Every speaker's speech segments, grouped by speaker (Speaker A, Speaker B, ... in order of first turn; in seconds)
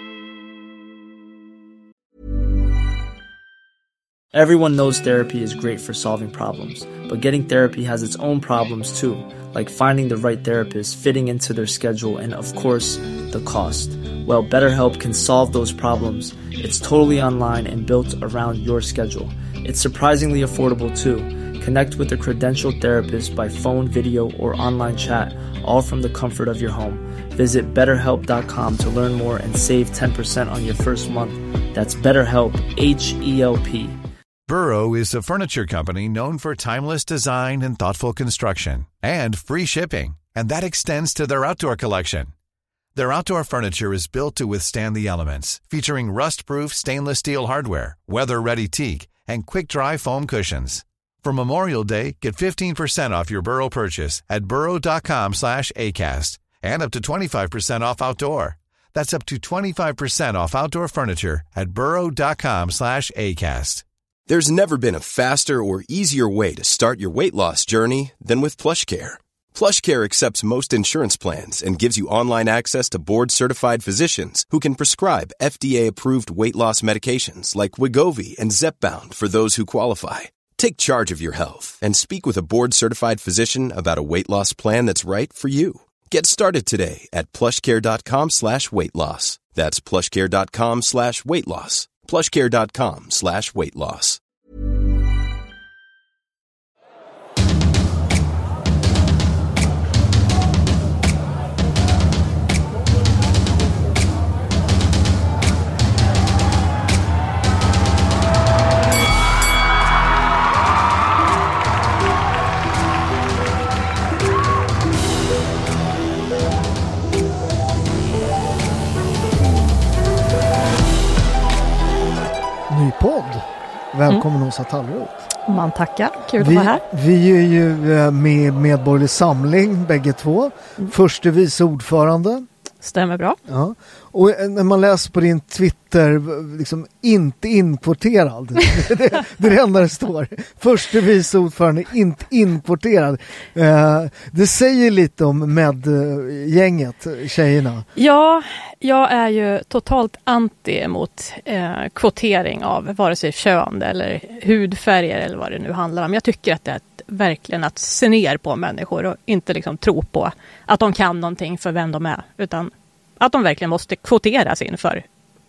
Speaker A: 4.3-34.0
Speaker B: 34.5-42.3, 42.9-63.8
Speaker C: 64.3-94.2
Speaker D: 122.7-125.3, 126.4-132.4, 133.5-147.9
Speaker E: 125.5-126.8, 132.8-133.4, 147.9-165.0